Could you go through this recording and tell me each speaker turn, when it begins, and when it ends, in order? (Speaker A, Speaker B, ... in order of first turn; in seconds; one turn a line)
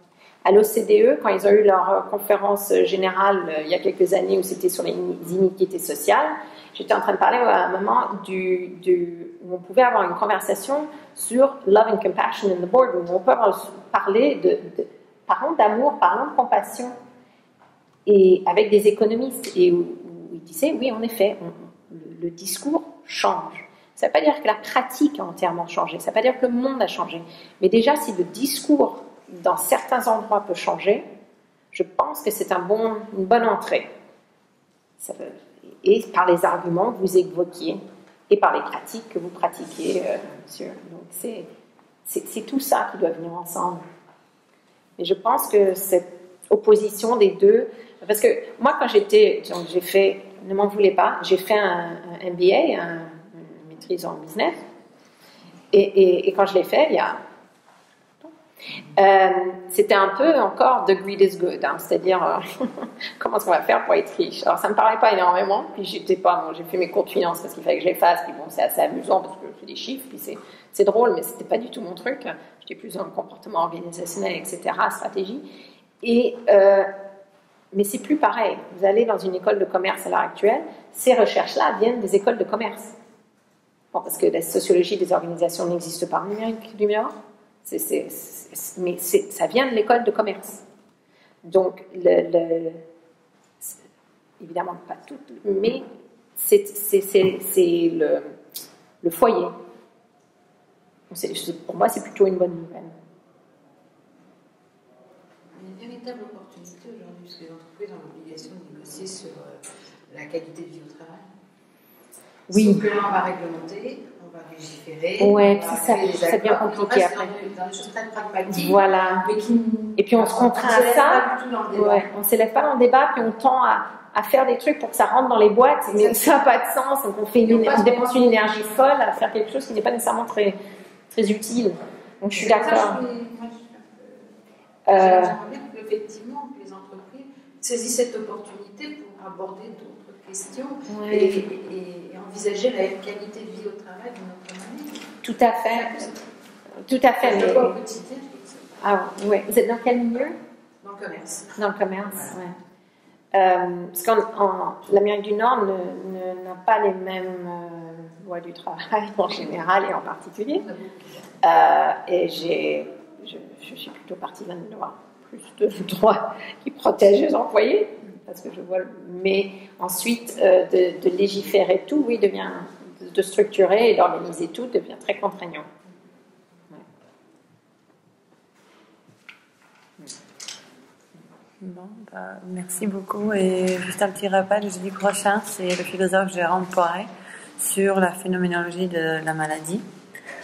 Speaker A: 0.4-16.9
Speaker A: 18.1-31.1
Speaker A: 31.7-33.9
Speaker A: 35.0-41.5
Speaker A: 42.0-43.8
Speaker A: 45.0-54.6
Speaker A: 55.7-57.2
Speaker A: 59.0-75.4
Speaker A: 76.0-76.9
Speaker A: 77.7-82.9
Speaker A: 83.9-87.1
Speaker A: 87.6-90.6
Speaker A: 91.4-92.8
Speaker A: 94.4-95.8
Speaker A: 96.4-98.3
Speaker A: 99.0-99.5
Speaker A: 101.1-102.9
Speaker B: 105.5-111.2
Speaker A: 112.5-112.9
Speaker B: 112.5-122.1
Speaker A: 115.2-117.3
Speaker A: 118.5-119.3
Speaker A: 120.0-130.6
Speaker B: 125.9-126.4
Speaker B: 127.4-128.7
Speaker A: 131.1-133.0
Speaker B: 132.3-134.3
Speaker A: 134.9-135.3
Speaker B: 134.9-145.0
Speaker A: 140.9-141.4
Speaker A: 145.2-146.1
Speaker B: 145.6-146.2
Speaker A: 146.8-147.8
Speaker B: 147.1-148.6
Speaker A: 148.8-150.4
Speaker B: 150.8-151.6
Speaker A: 151.6-152.5
Speaker A: 153.3-160.6
Speaker B: 160.5-161.2
Speaker A: 161.4-175.7
Speaker C: 181.6-189.8